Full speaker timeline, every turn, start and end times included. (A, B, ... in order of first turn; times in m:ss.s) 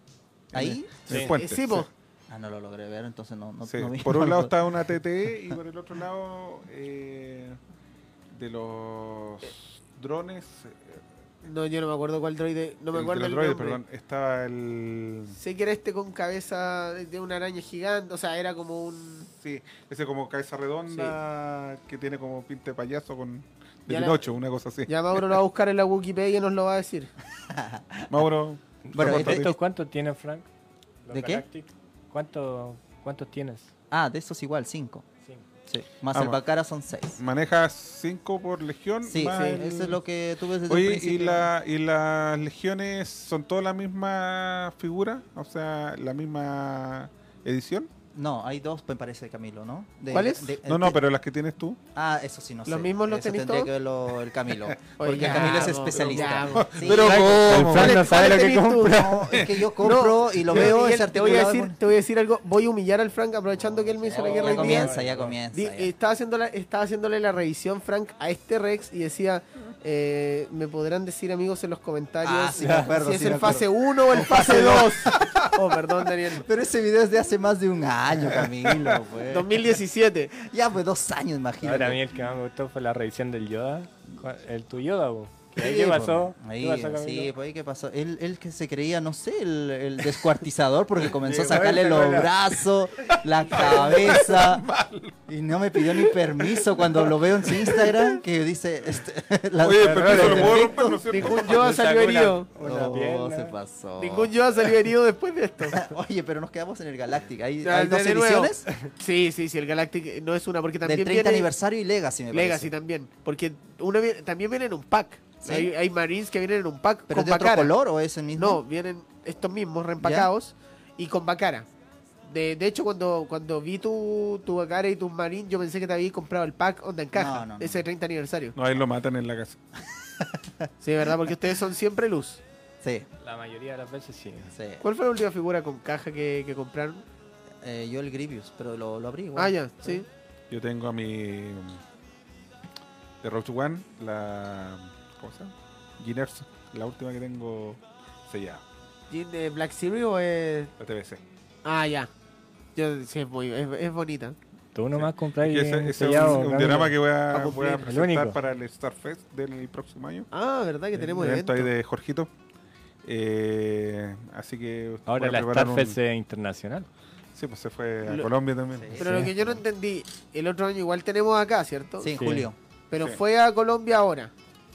0:00.5-0:01.9 A
0:00.5-0:01.2 B
0:01.1-0:01.9 C
0:02.3-0:04.8 B
0:03.6-0:07.6 A
0:08.3-0:11.0 A
0:11.4-0:13.8 C
0:12.9-0:15.4 A
0:15.3-0:19.3 C
0:19.4-0:25.4 A
0:20.9-0:21.2 C
0:23.9-0:24.2 C
0:24.9-0:27.1 C
0:27.4-0:28.2 B
0:28.1-0:29.6 A
0:28.8-0:30.4 D
0:28.9-0:29.6 B
0:31.0-0:33.7 D
0:31.1-0:31.4 B
0:33.9-0:35.0 B
0:35.7-0:37.2 B
0:36.1-0:36.4 A
0:37.2-0:40.0 A
0:39.0-0:41.5 B
0:39.3-0:39.8 C
0:40.7-0:47.9 A
0:48.1-0:51.0 B
0:50.1-0:50.6 C
0:50.7-0:51.8 A
0:51.9-1:01.8 B
0:52.6-0:53.7 C
0:55.0-0:57.0 C
0:55.3-0:55.7 D
0:55.7-0:58.0 A
0:56.8-0:59.4 D
0:57.7-0:59.2 C
0:59.3-0:59.7 A
0:59.8-1:05.0 C
1:03.7-1:05.9 B
1:04.1-1:05.4 D
1:05.5-1:16.5 C
1:12.2-1:15.5 B
1:12.6-1:12.9 D
1:16.3-1:19.8 B
1:18.3-1:19.0 A
1:19.3-1:20.3 C
1:20.4-1:22.0 B
1:21.6-1:27.3 D
1:25.6-1:34.6 B
1:31.2-1:32.3 A
1:31.4-1:32.3 D
1:33.0-1:35.2 A
1:35.3-1:41.0 B
1:35.8-1:38.2 A
1:39.6-1:41.6 A
1:39.8-1:43.5 D
1:41.0-1:42.5 C
1:42.6-1:44.3 B
1:44.0-1:45.8 C
1:45.7-1:48.7 B
1:47.6-1:51.5 C
1:50.8-1:52.7 B
1:52.3-1:57.7 C
1:55.4-1:55.7 B
1:57.1-1:58.6 B
1:58.4-2:01.7 C
2:00.0-2:00.3 B
2:02.2-2:08.6 C
2:07.1-2:07.8 B
2:08.6-2:09.6 A
2:10.2-2:10.7 B
2:10.8-2:12.4 C
2:12.8-2:13.1 B
2:13.2-2:14.5 D
2:14.5-2:14.8 B
2:14.8-2:17.0 C
2:17.6-2:20.0 B
2:19.4-2:20.1 C
2:20.5-2:21.8 A
2:23.2-2:28.6 A
2:29.1-2:30.7 C
2:30.8-2:31.2 A
2:31.6-2:32.1 C
2:32.7-2:34.4 C
2:34.7-2:36.9 D
2:34.9-2:40.3 A
2:37.3-2:37.9 C
2:37.8-2:38.4 D
2:40.3-2:41.7 C
2:40.9-2:42.3 A
2:43.0-2:46.0 A
2:45.1-2:46.9 D
2:47.4-2:49.5 A
2:48.7-2:49.1 B
2:48.9-2:52.1 C
2:49.0-2:49.3 D
2:52.0-2:52.6 B
2:52.2-2:52.5 D
2:52.9-2:54.3 C